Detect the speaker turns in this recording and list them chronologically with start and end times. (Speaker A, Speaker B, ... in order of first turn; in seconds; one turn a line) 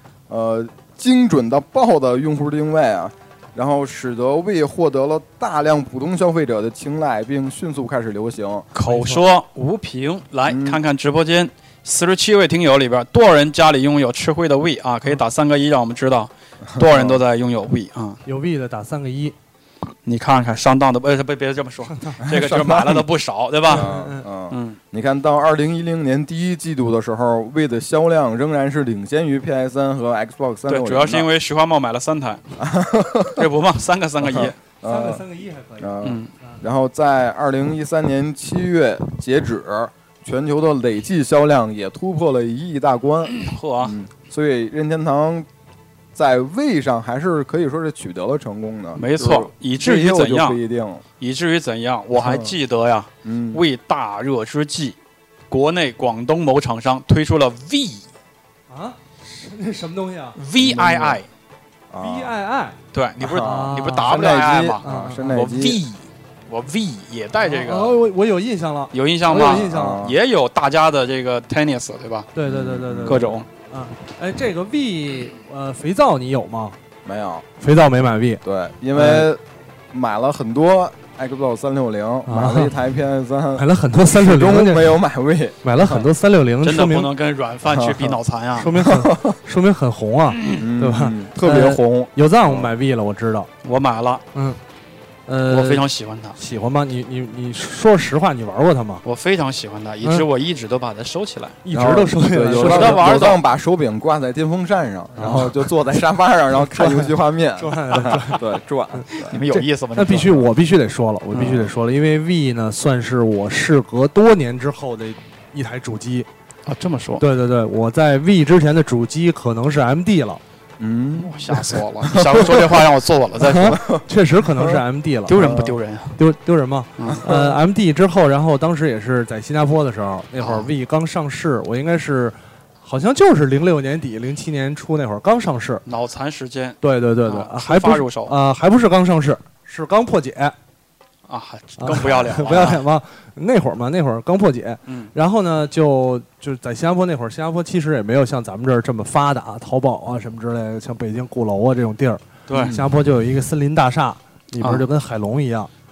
Speaker A: 0.3-8.7
Speaker B: 8.7-18.2
Speaker C: 8.8-9.2
Speaker A: 10.5-10.8
Speaker A: 16.7-17.2
Speaker C: 18.2-19.3
Speaker B: 20.0-23.9
Speaker C: 21.9-22.2
Speaker A: 22.2-23.1
Speaker A: 23.6-31.3
Speaker C: 23.7-24.2
Speaker B: 24.5-24.8
Speaker B: 30.7-32.4
Speaker A: 32.6-33.5
Speaker B: 33.3-34.6
Speaker A: 34.2-35.2
Speaker C: 34.8-36.6
Speaker A: 35.8-45.5
Speaker B: 36.0-36.3
Speaker B: 43.3-44.0
Speaker A: 46.1-51.0
Speaker B: 49.0-50.6
Speaker B: 51.2-55.0
Speaker A: 52.1-52.5
Speaker A: 53.2-53.6
Speaker B: 55.5-58.1
Speaker C: 58.7-60.4
Speaker B: 60.4-61.3
Speaker A: 60.6-61.2
Speaker A: 61.9-62.3
Speaker C: 62.0-62.8
Speaker B: 62.9-68.0
Speaker A: 63.2-65.8
Speaker C: 63.4-65.3
Speaker C: 67.4-70.0
Speaker B: 68.9-72.3
Speaker A: 69.3-70.2
Speaker C: 72.3-76.8
Speaker A: 72.4-73.3
Speaker B: 73.0-73.5
Speaker A: 77.0-77.5
Speaker C: 77.6-78.4
Speaker A: 78.4-86.1
Speaker C: 78.9-79.3
Speaker C: 82.3-82.7
Speaker C: 83.5-85.0
Speaker C: 85.6-87.1
Speaker B: 86.6-88.8
Speaker A: 87.6-88.2
Speaker C: 88.6-93.5
Speaker A: 88.8-89.4
Speaker B: 90.3-90.6
Speaker A: 90.5-92.7
Speaker B: 93.6-94.2
Speaker C: 94.3-94.6
Speaker C: 95.3-95.8
Speaker B: 95.5-96.3
Speaker C: 96.3-99.0
Speaker B: 99.0-101.6
Speaker C: 101.6-103.3
Speaker A: 101.7-109.4
Speaker B: 102.5-103.4
Speaker C: 105.2-105.7
Speaker C: 106.7-116.3
Speaker B: 109.1-110.5
Speaker B: 111.3-111.6
Speaker B: 116.7-117.2
Speaker C: 117.2-120.4
Speaker A: 120.8-122.9
Speaker B: 121.2-123.8
Speaker C: 123.4-125.4
Speaker A: 123.5-124.0
Speaker B: 125.3-126.2
Speaker A: 125.3-125.7
Speaker C: 126.2-135.8
Speaker B: 127.0-127.3
Speaker A: 127.1-127.5
Speaker B: 130.4-130.7
Speaker B: 135.8-138.3
Speaker C: 136.8-140.5
Speaker B: 141.3-142.8
Speaker C: 141.8-155.7
Speaker B: 144.9-145.1
Speaker B: 152.5-152.8
Speaker A: 152.5-152.8